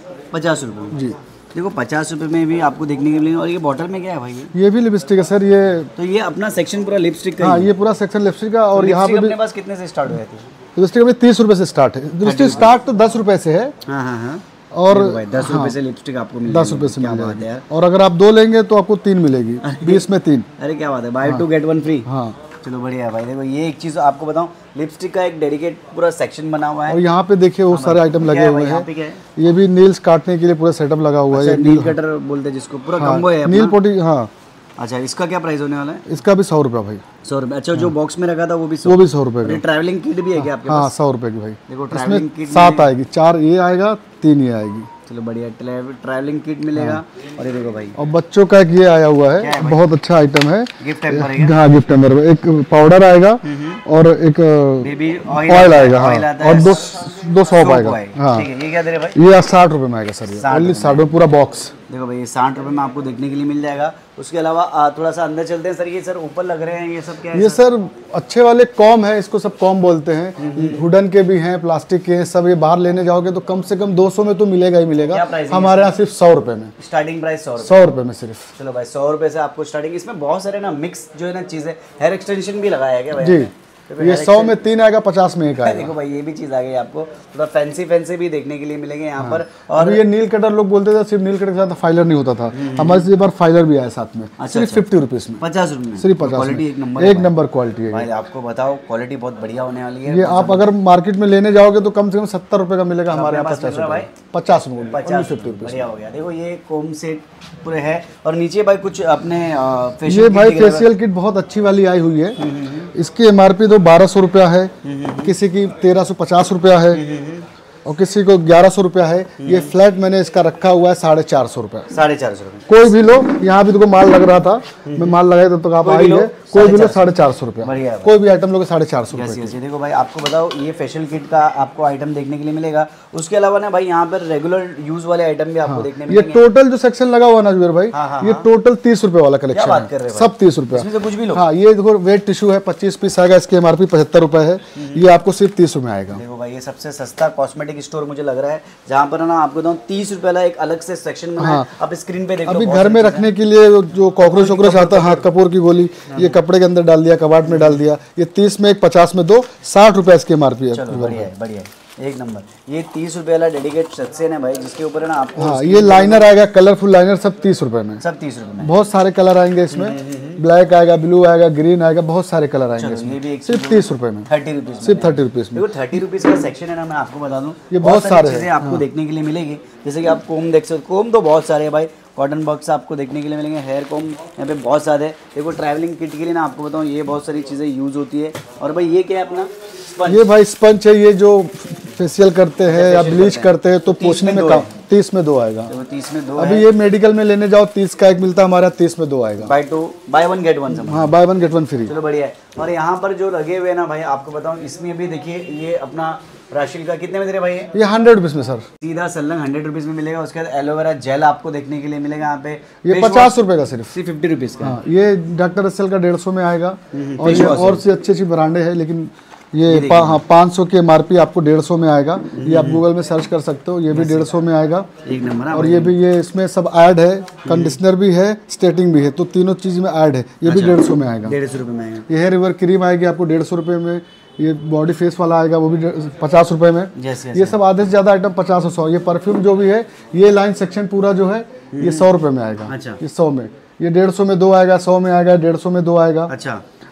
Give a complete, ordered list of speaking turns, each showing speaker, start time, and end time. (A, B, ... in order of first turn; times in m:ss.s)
0:00.3-0:04.5 A
0:04.5-0:05.9 B
0:06.0-0:07.7 A
0:07.4-0:09.4 B
0:08.7-0:10.5 A
0:10.8-0:13.7 B
0:12.2-0:12.7 A
0:13.9-0:17.7 A
0:14.7-0:15.8 B
0:16.5-0:20.5 B
0:19.6-0:20.1 A
0:20.6-0:22.1 A
0:22.0-0:22.4 B
0:22.6-0:27.0 A
0:26.9-0:32.0 B
0:27.7-0:29.2 A
0:31.3-0:33.8 A
0:33.0-0:34.3 B
0:34.8-0:36.1 A
0:36.1-0:37.0 B
0:37.2-0:40.9 A
0:38.8-0:39.6 B
0:40.6-0:44.9 B
0:41.7-0:42.9 A
0:45.1-0:48.0 A
0:46.8-0:47.0 B
0:48.0-0:58.5 B
0:49.4-0:49.8 A
0:50.8-0:51.6 A
0:53.4-0:53.8 A
0:54.8-0:59.2 A
0:59.1-1:01.7 B
1:00.3-1:01.1 A
1:01.9-1:07.6 A
1:07.3-1:16.7 B
1:10.4-1:10.9 A
1:15.1-1:16.0 A
1:16.8-1:17.9 A
1:17.6-1:18.5 B
1:18.6-1:24.6 A
1:23.2-1:25.9 B
1:25.6-1:30.0 A
1:29.2-1:35.4 B
1:32.5-1:33.1 A
1:34.4-1:34.8 A
1:35.4-1:37.3 A
1:36.0-1:38.1 B
1:37.9-1:40.7 A
1:40.1-1:45.8 B
1:43.1-1:44.1 A
1:44.9-1:50.9 A
1:50.0-1:52.4 B
1:52.4-1:52.9 A
1:52.9-1:54.7 B
1:54.8-1:55.3 A
1:55.2-1:57.0 B
1:56.9-1:57.5 A
1:57.9-2:01.9 B
1:59.4-1:59.7 A
2:01.9-2:02.7 A
2:02.7-2:09.6 B
2:04.8-2:05.2 A
2:05.8-2:07.0 A
2:07.6-2:08.2 A
2:09.1-2:16.4 A
2:15.7-2:26.2 B
2:17.9-2:18.5 A
2:19.5-2:21.4 A
2:24.8-2:25.1 A
2:26.1-2:33.3 A
2:31.4-2:31.7 B
2:32.4-2:41.3 B
2:34.2-2:35.3 A
2:36.1-2:36.4 A
2:37.4-2:37.8 A
2:40.7-2:46.3 A
2:45.4-2:48.0 B
2:48.0-2:48.7 A
2:48.6-2:54.3 B
2:49.7-2:50.4 A
2:52.8-3:10.3 A
2:54.8-2:55.7 B
2:57.7-2:58.8 B
3:10.1-3:15.7 B
3:12.6-3:14.7 A
3:15.7-3:16.7 A
3:16.4-3:19.5 B
3:19.4-3:21.2 A
3:20.7-3:21.9 B
3:21.9-3:27.7 A
3:27.7-3:28.6 B
3:28.8-3:33.4 A
3:32.8-3:33.9 B
3:33.9-3:34.8 A
3:34.6-3:44.9 B
3:36.9-3:37.8 A
3:39.7-3:40.2 A
3:42.3-3:42.8 A
3:43.9-3:44.3 A
3:45.0-3:46.0 A
3:45.5-3:51.4 B
3:47.4-3:47.8 A
3:50.4-3:52.1 A
3:52.1-4:06.3 B
3:57.0-3:57.6 A
4:01.7-4:02.1 A
4:02.7-4:03.0 A
4:06.3-4:06.6 A